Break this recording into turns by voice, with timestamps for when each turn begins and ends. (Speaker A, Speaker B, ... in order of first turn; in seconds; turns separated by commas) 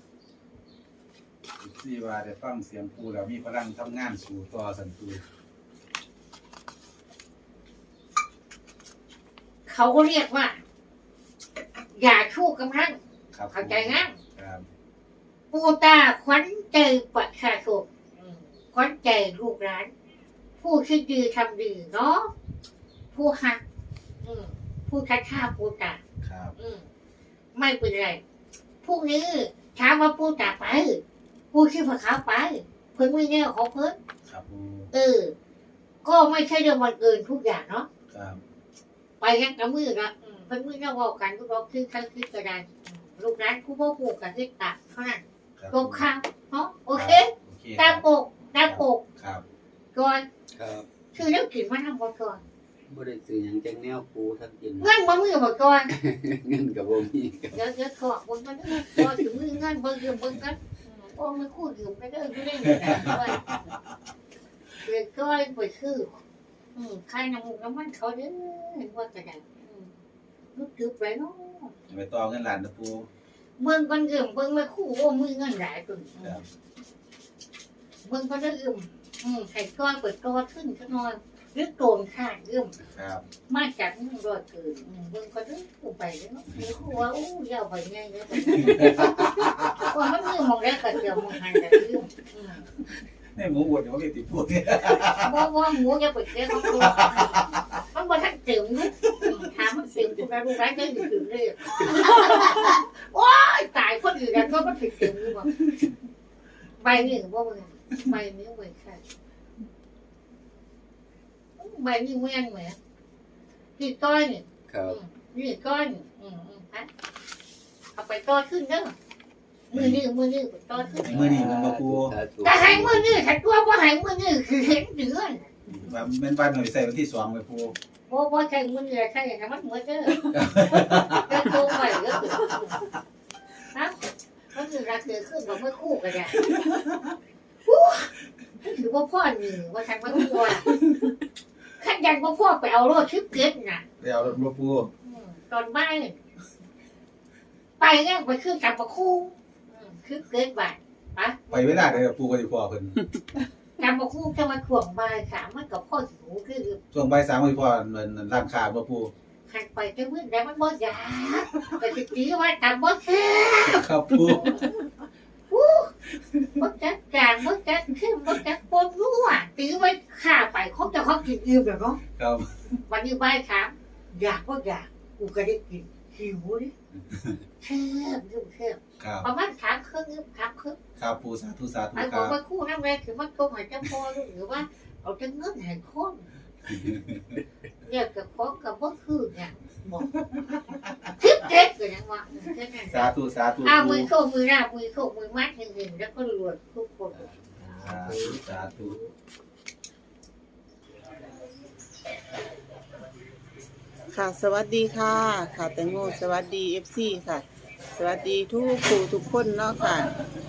Speaker A: 1.6-5.2, Speaker B: 9.7-10.6, Speaker B: 11.9-13.0, Speaker A: 13.3-14.7, Speaker B: 13.5-14.2, Speaker B: 15.5-19.9, Speaker B: 20.6-22.3, Speaker B: 23.1-23.6, Speaker B: 24.2-26.0, Speaker A: 26.2-26.5, Speaker B: 26.6-26.9, Speaker B: 27.5-28.2, Speaker B: 28.8-34.0, Speaker A: 34.2-34.9, Speaker B: 34.9-35.3, Speaker B: 36.0-37.9, Speaker A: 38.1-38.4, Speaker B: 39.2-49.0, Speaker A: 45.6-46.1, Speaker A: 46.9-48.0, Speaker A: 48.6-49.4, Speaker B: 49.9-50.2, Speaker C: 50.5-50.9, Speaker B: 51.1-52.4, Speaker C: 52.9-54.9, Speaker B: 54.8-55.9, Speaker C: 55.9-57.6, Speaker B: 57.5-63.5, Speaker B: 64.8-66.2, Speaker B: 66.8-69.9, Speaker B: 70.5-71.7, Speaker A: 71.9-73.1, Speaker B: 73.6-76.4, Speaker B: 78.0-82.7, Speaker A: 82.9-83.2, Speaker B: 83.5-92.7, Speaker A: 88.6-89.9, Speaker A: 93.3-95.5, Speaker B: 95.2-105.5, Speaker A: 96.6-97.7, Speaker B: 106.8-109.0, Speaker B: 111.6-112.8, Speaker B: 113.8-116.9, Speaker C: 114.7-115.0, Speaker B: 118.0-119.0, Speaker B: 119.7-121.3, Speaker A: 119.7-120.0, Speaker C: 121.0-123.2, Speaker A: 121.0-122.2, Speaker B: 122.4-125.5, Speaker A: 125.7-127.7, Speaker B: 128.1-132.8, Speaker A: 130.2-131.7, Speaker B: 133.7-134.0, Speaker B: 134.5-136.5, Speaker A: 136.5-137.1, Speaker B: 137.7-140.7, Speaker B: 141.8-144.3, Speaker A: 144.0-144.9, Speaker B: 145.0-146.2, Speaker B: 147.8-152.0, Speaker A: 151.5-153.0, Speaker B: 153.8-156.8, Speaker A: 156.9-159.1, Speaker B: 159.5-164.7, Speaker A: 163.6-164.7, Speaker B: 165.5-165.9, Speaker B: 166.6-172.0, Speaker A: 172.2-172.5, Speaker B: 172.9-176.7, Speaker B: 177.6-180.8, Speaker A: 179.0-179.3, Speaker A: 181.0-182.3, Speaker B: 181.9-186.3, Speaker A: 186.9-187.2, Speaker B: 187.8-190.2, Speaker A: 190.3-191.1, Speaker B: 191.1-197.2, Speaker A: 192.9-194.1, Speaker C: 197.2-199.1, Speaker A: 197.7-199.0, Speaker D: 204.1-210.1